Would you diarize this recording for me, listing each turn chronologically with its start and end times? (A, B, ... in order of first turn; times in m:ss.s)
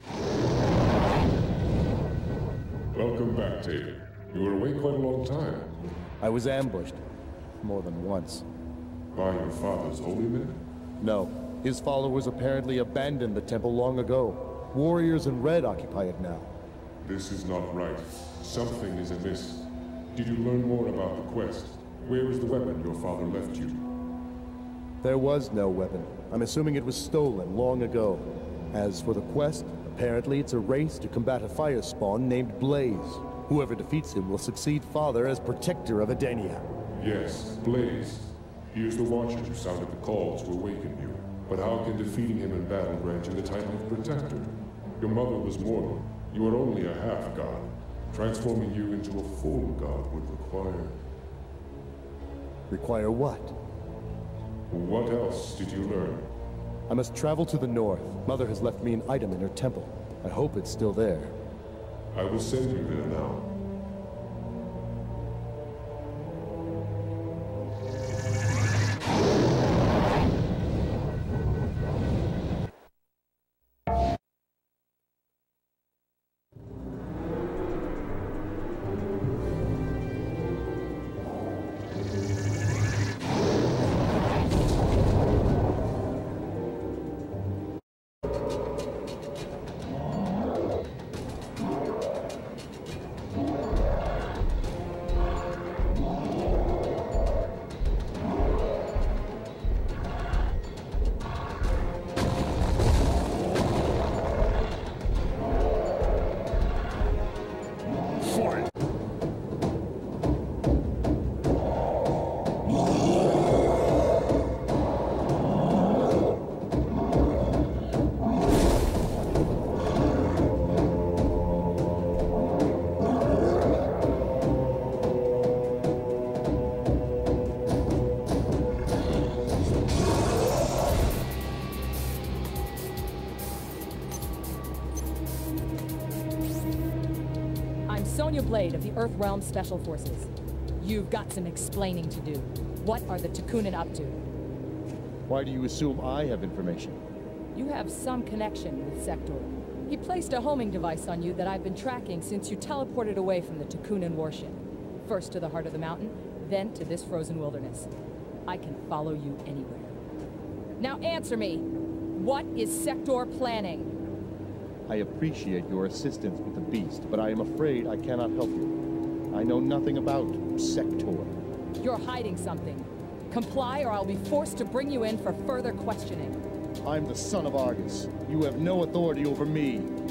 0:02.9-0:05.8 A
0:06.2-0:07.0 B
0:07.6-0:08.4 B
0:09.1-0:10.6 A
0:11.0-0:16.5 B
0:17.0-0:23.8 A
0:25.0-0:36.7 B
0:37.0-0:51.0 A
0:52.7-0:53.6 B
0:54.7-0:56.3 A
0:56.9-1:01.4 B
1:02.1-1:03.5 A
2:17.9-2:24.2 C
2:25.3-2:27.0 B
2:27.5-2:37.9 C
2:38.5-2:40.0 C
2:40.8-2:43.9 C
2:44.9-2:48.8 B
2:49.3-2:51.4 B
2:51.8-2:56.4 C
2:56.8-2:59.9 B